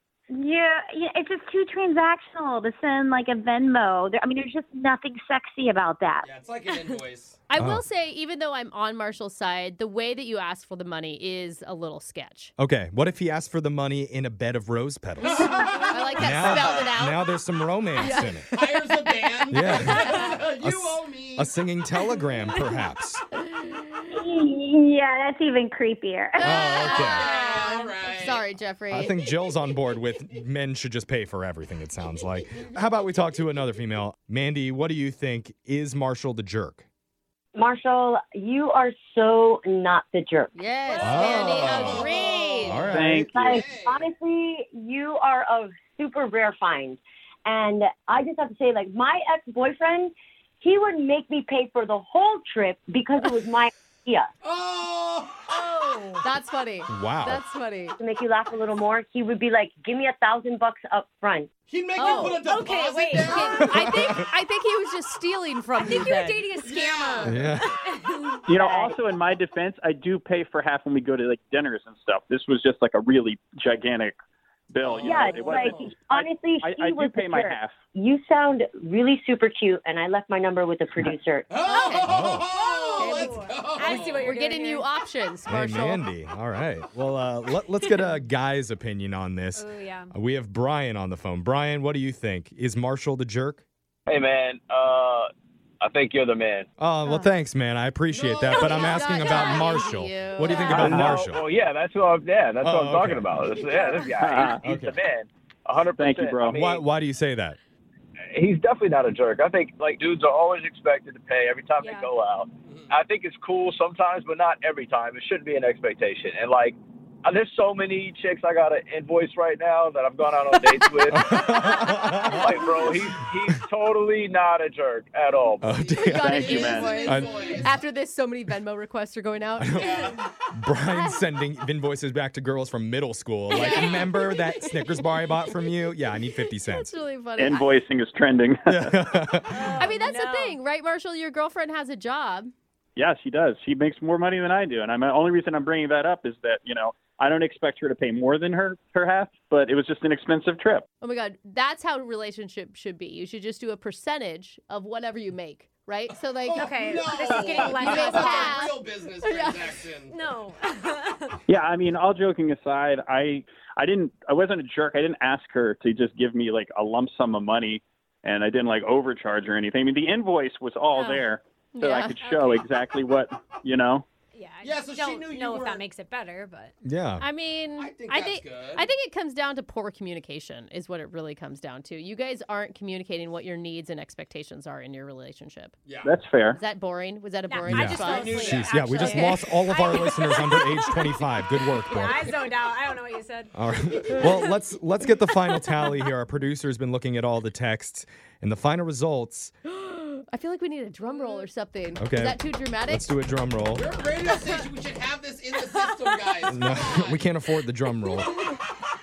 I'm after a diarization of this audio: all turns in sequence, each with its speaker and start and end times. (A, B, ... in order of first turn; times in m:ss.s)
0:00.3-0:06.3 A
0:06.2-0:07.4 B
0:07.5-0:12.5 C
0:07.6-0:07.8 D
0:12.6-0:15.6 D
0:15.2-0:16.9 B
0:15.2-0:17.3 C
0:16.2-0:18.5 D
0:18.0-0:18.9 C
0:18.0-0:21.5 B
0:19.5-0:20.3 C
0:19.5-0:23.2 D
0:23.4-0:23.9 C
0:24.1-0:26.6 A
0:26.4-0:29.1 C
0:26.4-0:27.3 D
0:26.7-0:28.4 B
0:28.9-0:36.9 D
0:37.6-0:40.5 E
0:40.5-0:42.9 C
0:40.8-0:44.1 B
0:41.0-0:42.1 D
0:42.6-0:43.4 D
0:42.9-0:43.6 F
0:43.1-0:54.3 E
0:54.4-0:56.2 B
0:55.5-0:58.0 C
0:56.9-0:57.4 D
0:58.0-1:01.5 E
1:01.7-1:04.3 B
1:02.0-1:02.5 C
1:02.0-1:03.8 G
1:03.2-1:06.4 C
1:05.8-1:08.6 G
1:06.6-1:07.5 B
1:07.2-1:07.7 D
1:08.5-1:14.1 F
1:14.7-1:17.7 F
1:14.9-1:21.5 E
1:21.5-1:24.4 B
1:21.7-1:22.2 C
1:22.1-1:22.5 D
1:22.5-1:24.9 G
1:23.0-1:23.4 C
1:24.1-1:26.1 C
1:25.5-1:33.6 D
1:27.8-1:28.1 G
1:29.6-1:30.2 G
1:34.1-1:36.7 H
1:36.8-1:41.4 D
1:37.1-1:37.3 C
1:38.1-1:39.1 B
1:38.4-1:41.2 C
1:40.6-1:46.8 H
1:42.6-1:43.3 D
1:43.5-1:44.2 B
1:44.1-1:44.6 F
1:44.6-1:45.0 D
1:46.0-1:46.6 F
1:46.6-1:47.6 D
1:48.3-2:05.7 H
1:51.8-1:52.1 G
1:52.7-1:52.9 B
2:01.1-2:02.5 D
2:05.6-2:06.5 D
2:05.6-2:07.8 B
2:06.0-2:10.2 C
2:06.2-2:06.9 F
2:07.0-2:07.6 D
2:09.6-2:16.9 D
2:09.8-2:10.2 B
2:13.5-2:14.3 B
2:16.5-2:17.7 C
2:17.4-2:18.7 F
2:18.7-2:19.8 D
2:19.5-2:20.6 G
2:19.7-2:22.5 C
2:23.0-2:30.9 F
2:31.0-2:39.7 C
2:36.4-2:40.2 B
2:36.6-2:38.8 G
2:37.3-2:38.0 F
2:40.1-2:41.4 G
2:41.5-2:54.1 F
2:50.9-2:51.3 G
2:51.7-2:52.2 C
2:52.2-2:52.6 G
2:54.3-2:56.7 G
2:54.6-2:55.8 B
2:56.8-2:57.2 D
2:57.2-3:05.8 C
2:57.8-2:58.9 B
3:05.9-3:06.1 B
3:06.0-3:06.6 F
3:06.6-3:10.9 C
3:07.5-3:13.5 G
3:07.6-3:12.3 D
3:07.7-3:08.9 B
3:13.5-3:19.5 D
3:19.7-3:23.1 C
3:22.0-3:23.9 D
3:23.7-3:27.3 B
3:26.5-3:28.4 D